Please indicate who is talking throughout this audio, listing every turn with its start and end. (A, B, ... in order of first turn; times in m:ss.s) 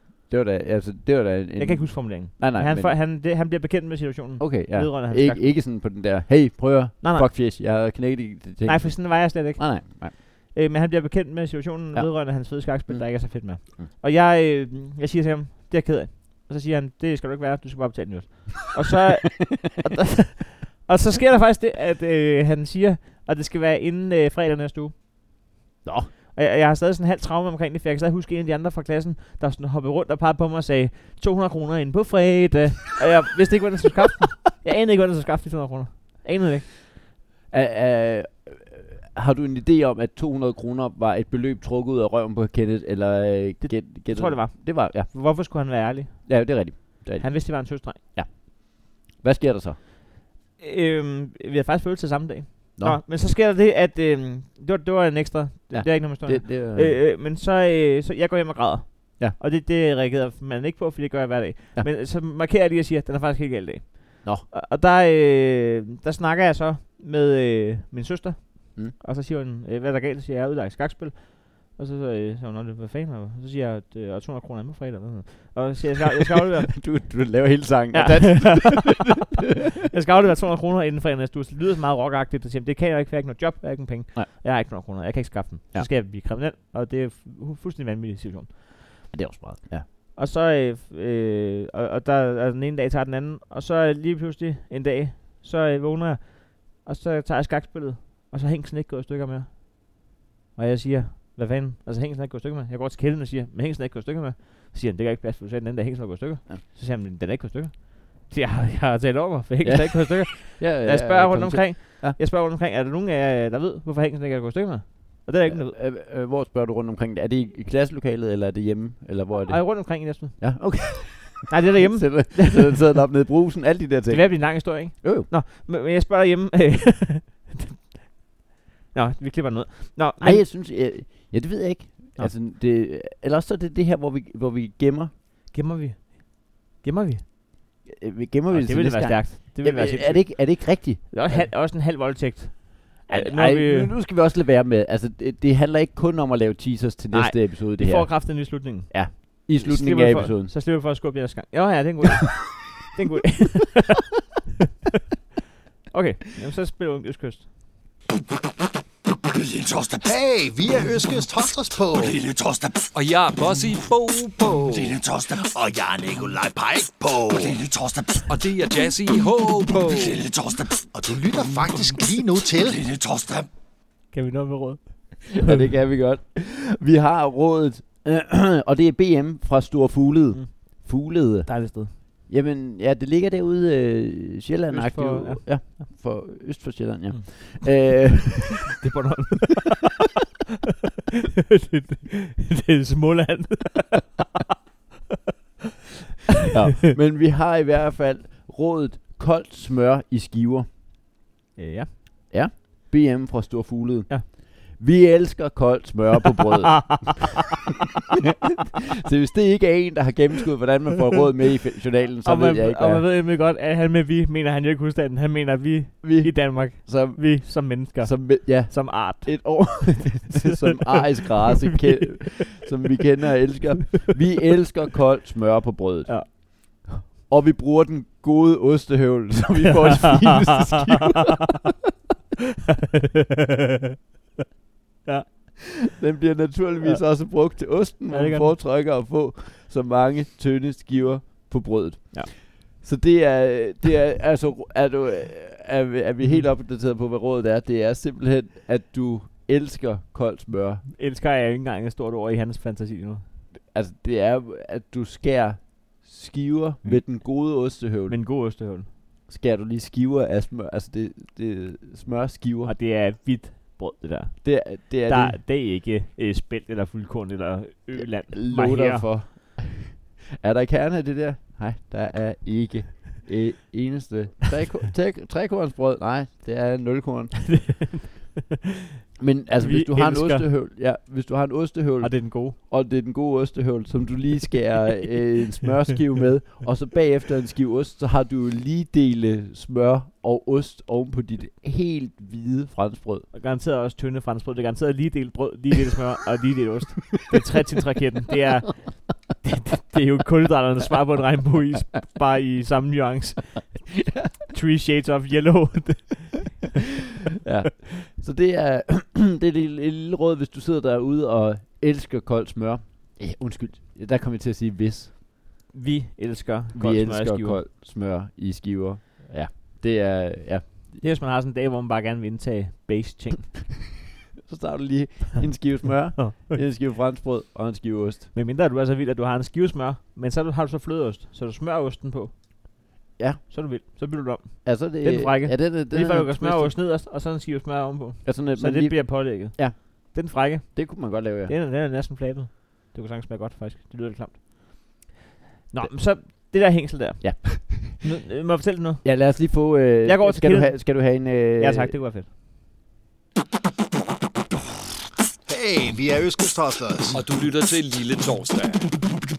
0:00.3-0:02.9 A
0:01.6-0:05.5 B
0:04.4-0:10.1 A
0:07.0-0:07.3 B
0:08.6-0:25.0 B
0:11.9-0:13.9 A
0:25.8-0:26.1 A
0:26.3-0:36.7 B
0:37.5-0:45.1 A
0:43.6-0:48.0 B
0:46.2-0:49.8 A
0:50.6-1:17.3 B
0:52.8-0:53.0 A
0:55.7-0:57.0 A
1:16.7-1:19.0 A
1:17.9-1:19.0 B
1:19.9-1:29.0 B
1:29.1-1:29.8 A
1:30.1-1:55.8 B
1:49.6-1:52.2 A
1:55.4-2:05.3 A
1:59.5-2:02.7 B
2:04.1-2:08.1 B
2:08.9-2:10.4 B
2:10.2-2:15.1 A
2:15.5-2:17.2 B
2:17.8-2:21.5 A
2:18.5-2:23.9 B
2:23.1-2:30.5 A
2:27.1-2:34.0 B
2:35.9-2:37.5 B
2:39.3-2:42.9 C
2:42.9-2:45.0 D
2:44.7-2:48.3 C
2:48.3-2:50.2 D
2:49.6-2:53.5 C
2:54.1-2:55.6 B
2:55.4-3:08.6 A
3:00.3-3:00.9 B
3:01.4-3:01.9 B
3:04.7-3:06.3 B
3:07.1-3:08.2 B
3:08.8-3:09.7 B
3:11.5-3:14.2 B
3:16.5-3:20.7 A
3:21.6-3:21.9 B
3:22.3-3:27.2 A
3:26.7-3:27.2 B
3:29.0-3:33.1 A
3:32.2-3:40.9 B
3:36.0-3:51.3 A
3:46.0-3:47.0 B
3:55.0-3:55.8 B
3:55.9-4:10.8 A
3:56.8-3:57.5 B
3:58.1-3:58.6 B
4:10.8-4:13.2 B
4:13.5-4:18.2 A
4:16.8-4:17.2 B
4:18.1-4:18.9 B
4:19.3-4:22.8 A
4:22.6-4:29.1 B
4:24.4-4:25.4 A
4:27.9-4:37.9 A
4:37.5-4:38.5 B
4:39.2-4:53.3 A
4:39.6-4:40.5 B
4:42.0-4:42.6 B
4:53.3-5:06.6 B
5:07.4-5:15.1 A
5:15.7-5:17.6 B
5:16.7-5:20.7 A
5:21.0-5:23.8 B
5:24.4-5:28.3 A
5:26.2-5:26.6 B
5:28.3-5:33.0 B
5:33.2-5:33.4 A
5:33.5-5:45.1 B
5:34.6-5:36.8 A
5:38.2-5:41.5 A
5:45.7-5:52.3 B
5:45.8-5:46.5 A
5:47.2-5:48.0 A
5:49.0-5:52.0 A
5:55.4-5:57.2 C
5:57.1-5:58.9 D